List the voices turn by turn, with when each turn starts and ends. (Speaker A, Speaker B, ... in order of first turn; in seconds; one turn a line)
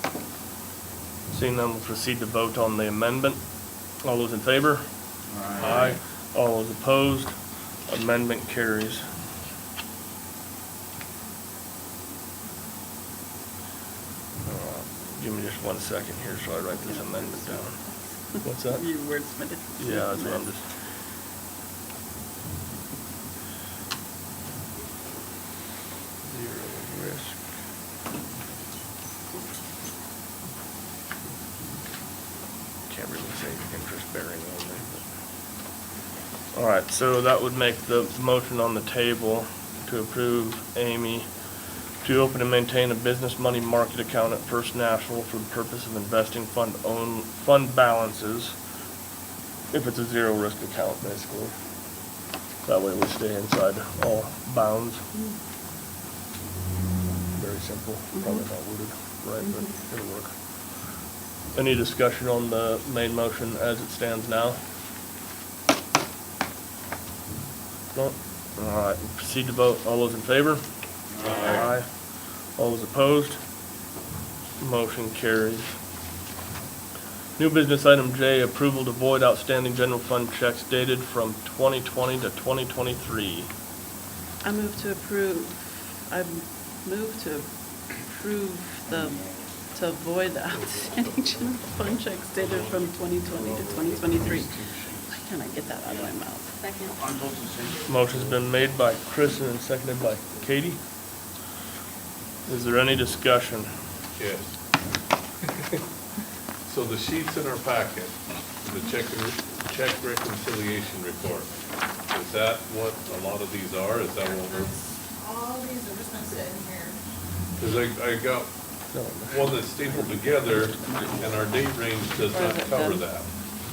Speaker A: 1.3-4.8
Speaker B: 5.3-5.9
Speaker A: 5.5-9.1
Speaker A: 14.4-18.9
Speaker C: 16.7-20.7
Speaker A: 19.8-20.6
Speaker A: 26.2-27.4
Speaker A: 32.9-35.0
Speaker A: 36.5-48.5
Speaker A: 49.7-51.6
Speaker A: 52.6-55.1
Speaker A: 57.3-60.7
Speaker C: 58.1-58.5
Speaker C: 59.4-59.7
Speaker A: 61.5-64.6
Speaker A: 67.9-70.6
Speaker B: 71.1-71.7
Speaker D: 71.2-71.7
Speaker A: 71.2-73.4
Speaker A: 74.6-75.8
Speaker A: 77.4-83.5
Speaker C: 84.4-96.9
Speaker B: 88.9-89.5
Speaker D: 90.5-95.2
Speaker B: 97.0-98.4
Speaker A: 97.9-100.8
Speaker A: 102.5-103.7
Speaker D: 104.2-104.6
Speaker D: 106.6-111.5
Speaker D: 112.1-114.7
Speaker E: 114.2-117.0
Speaker D: 117.5-118.6
Speaker A: 118.9-119.5
Speaker D: 119.2-123.3
Speaker C: 119.8-121.5
Speaker C: 122.2-123.1